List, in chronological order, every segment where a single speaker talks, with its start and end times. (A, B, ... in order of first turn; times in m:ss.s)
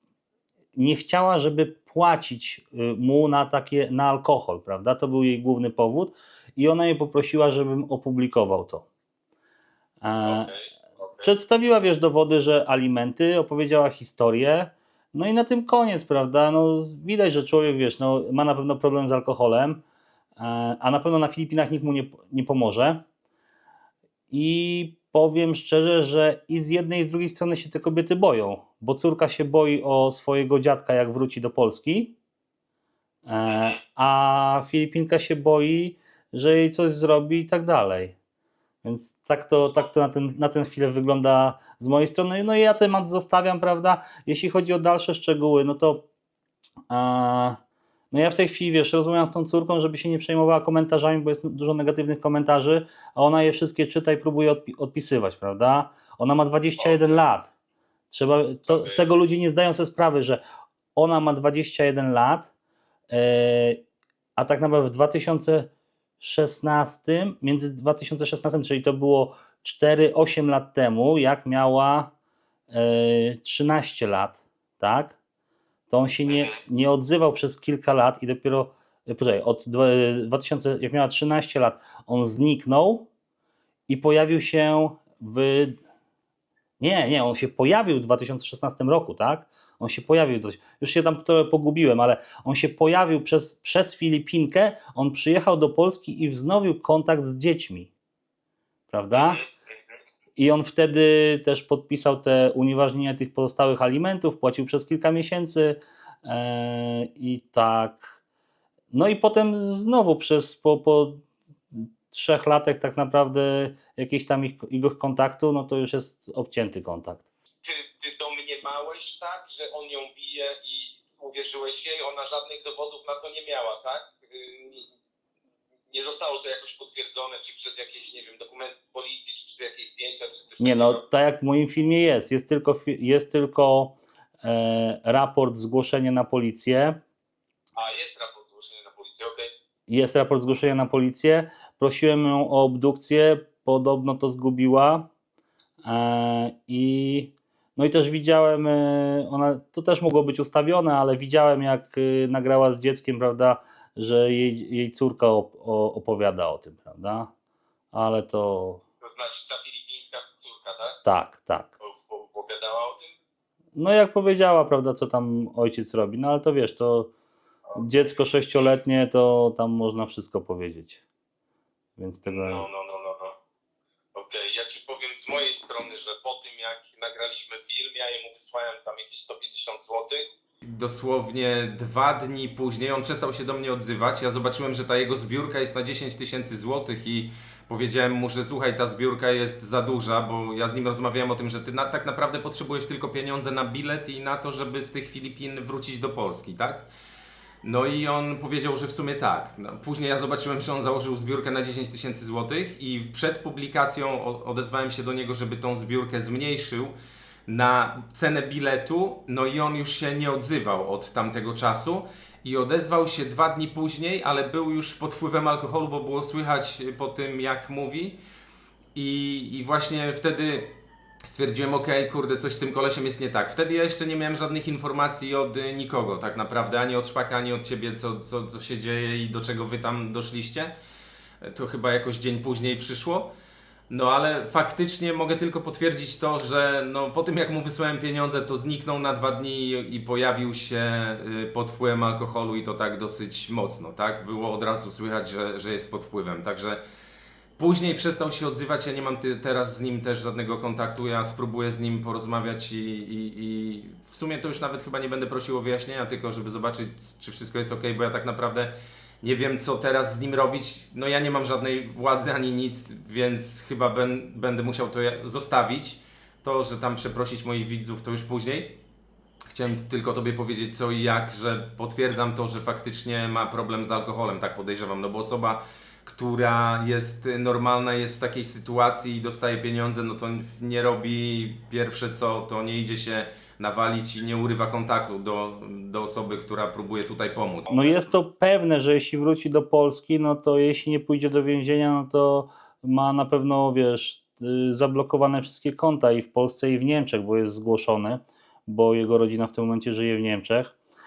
0:00.7-0:08.8 A
0:10.0-0:10.5 A
0:10.2-0:11.3 B
0:11.2-0:19.8 A
0:20.4-0:23.0 A
0:24.3-0:32.1 A
0:33.3-0:38.1 A
0:33.5-0:33.8 B
0:38.8-0:46.0 A
0:46.9-0:47.6 A
0:48.1-0:57.5 A
0:56.8-0:57.2 B
0:58.1-1:00.4 A
0:58.7-0:59.0 B
1:01.0-1:02.5 A
1:03.1-1:03.8 A
1:04.4-1:05.7 A
1:06.2-1:12.1 A
1:12.7-1:15.2 A
1:15.9-1:23.1 A
1:16.3-1:16.6 B
1:23.9-1:25.8 A
1:26.8-1:37.9 A
1:38.9-1:39.4 A
1:39.1-1:40.0 B
1:40.4-1:48.2 A
1:48.9-1:51.2 A
1:51.8-1:57.2 A
1:57.6-2:04.9 B
2:05.9-2:11.0 B
2:10.6-2:17.0 A
2:17.7-2:19.5 B
2:19.9-2:25.1 A
2:25.8-2:37.3 A
2:37.9-2:38.8 A
2:39.0-2:41.0 B
2:41.0-2:41.7 A
2:41.8-2:43.1 B
2:43.7-2:47.1 A
2:47.8-2:51.0 A
2:52.0-2:52.7 A
2:52.2-2:53.4 B
2:54.1-3:00.3 B
3:00.6-3:16.9 C
3:17.6-3:26.9 C
3:27.5-3:38.2 C
3:38.9-3:50.7 C
3:51.4-3:53.3 C
3:53.9-4:06.8 C
4:07.6-4:28.8 C
4:29.5-4:47.7 C
4:47.7-5:00.7 A
4:47.7-4:48.0 B